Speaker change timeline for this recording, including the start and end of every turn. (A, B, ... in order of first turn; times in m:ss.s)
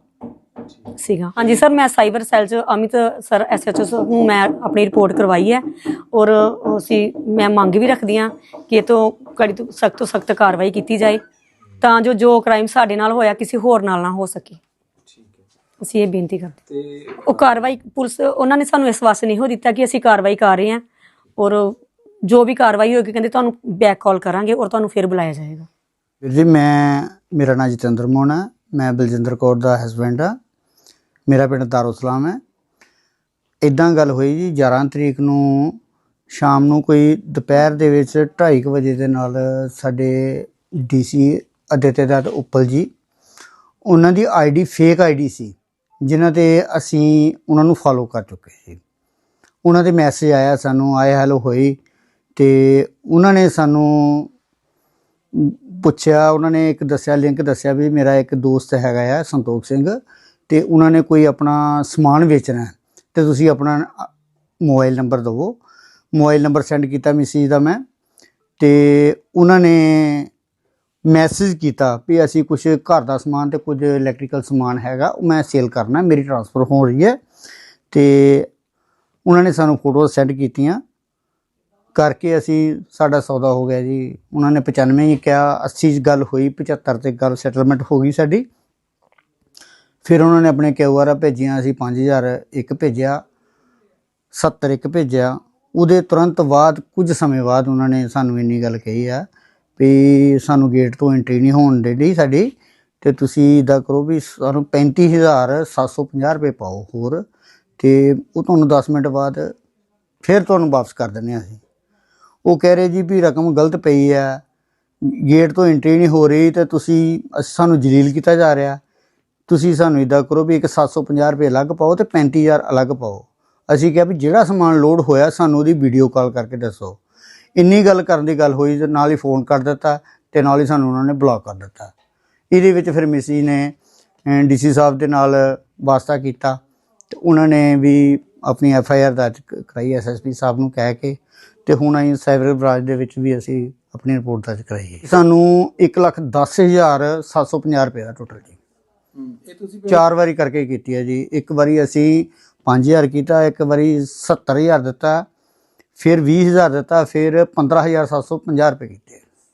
0:01.0-0:11.2 A
0:11.8-0:14.6 A
0:15.1-0:15.4 B
0:15.8-0:16.6 A
0:16.7-0:17.4 B
0:17.2-0:20.8 A
0:21.4-0:25.7 A
0:26.2-0:30.4 C
0:31.3-0:32.4 C
0:33.6-0:35.8 C
0:36.3-0:42.9 C
0:43.8-0:48.8 C
0:49.6-0:51.8 C
0:52.4-0:54.3 C
0:55.3-1:04.1 C
1:04.6-1:05.6 C
1:06.1-1:07.8 C
1:08.6-1:10.3 C
1:11.0-1:17.2 C
1:17.9-1:18.5 C
1:19.2-1:20.8 C
1:21.9-1:28.5 C
1:30.0-1:33.2 C
1:34.3-1:47.2 C
1:47.8-1:49.5 C
1:50.2-1:51.6 C
1:52.4-1:54.4 C
1:55.0-1:58.8 C
1:59.5-2:07.0 C
2:07.6-2:11.9 C
2:12.5-2:13.8 C
2:14.2-2:28.6 C
2:29.2-2:30.0 B
2:29.9-2:35.2 C
2:36.0-2:39.2 C